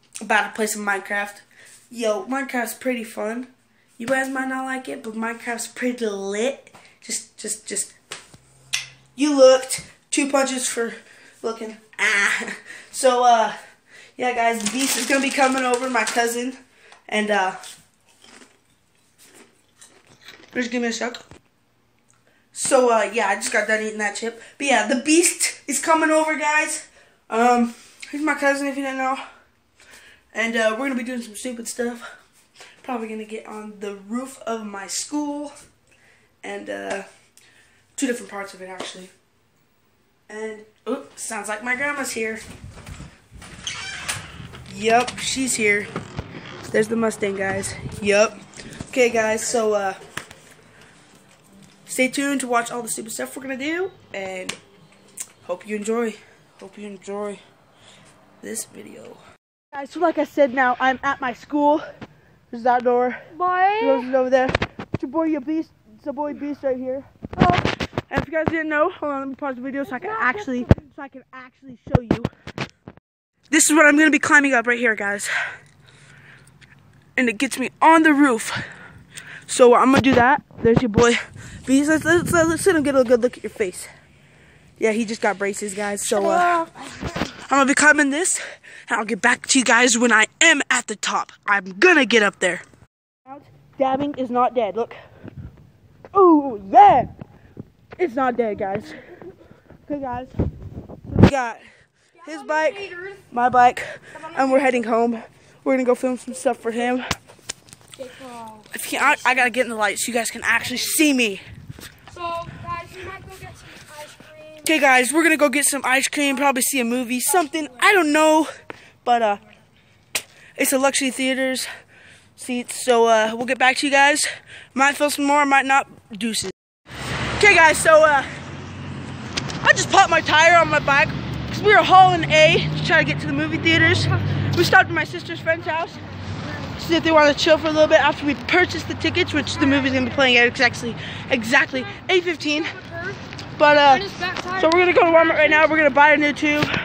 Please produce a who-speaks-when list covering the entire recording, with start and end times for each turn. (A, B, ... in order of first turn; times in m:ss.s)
0:00.2-0:07.9 A
0:09.2-0:13.5 A
0:14.2-0:16.6 A
0:17.1-0:17.6 A
0:20.5-0:21.2 A
0:22.5-0:29.2 A
0:30.3-0:32.1 A
0:32.8-0:35.5 A
0:36.4-0:37.0 A
0:37.9-0:39.1 A
0:40.3-0:42.4 A
0:44.7-0:45.9 A
0:46.7-0:48.4 A
0:48.9-0:50.0 A
0:51.9-0:54.6 A
0:55.4-0:57.4 A
0:58.4-0:59.2 A
0:59.7-1:01.8 A
1:02.5-1:07.1 A
1:03.3-1:04.1 B
1:07.4-1:07.6 B
1:08.1-1:12.3 A
1:09.9-1:10.7 B
1:13.5-1:15.3 A
1:17.2-1:18.6 A
1:19.5-1:23.9 A
1:24.8-1:26.6 A
1:26.1-1:27.3 B
1:27.3-1:32.6 A
1:33.2-1:35.0 A
1:36.1-1:37.1 A
1:38.0-1:39.0 A
1:39.9-1:40.3 A
1:41.1-1:41.6 A
1:42.2-1:43.2 B
1:42.2-1:47.0 A
1:44.2-1:44.8 B
1:48.0-1:49.4 B
1:48.7-1:51.4 A
1:52.1-1:54.7 B
1:54.6-1:58.5 A
1:59.0-1:59.4 A
2:00.6-2:01.7 A
2:02.4-2:06.5 A
2:07.4-2:08.3 A
2:09.6-2:16.0 A
2:16.8-2:22.8 A
2:19.6-2:20.1 B
2:22.5-2:23.2 B
2:23.6-2:24.0 A
2:23.8-2:25.7 B
2:24.6-2:26.7 A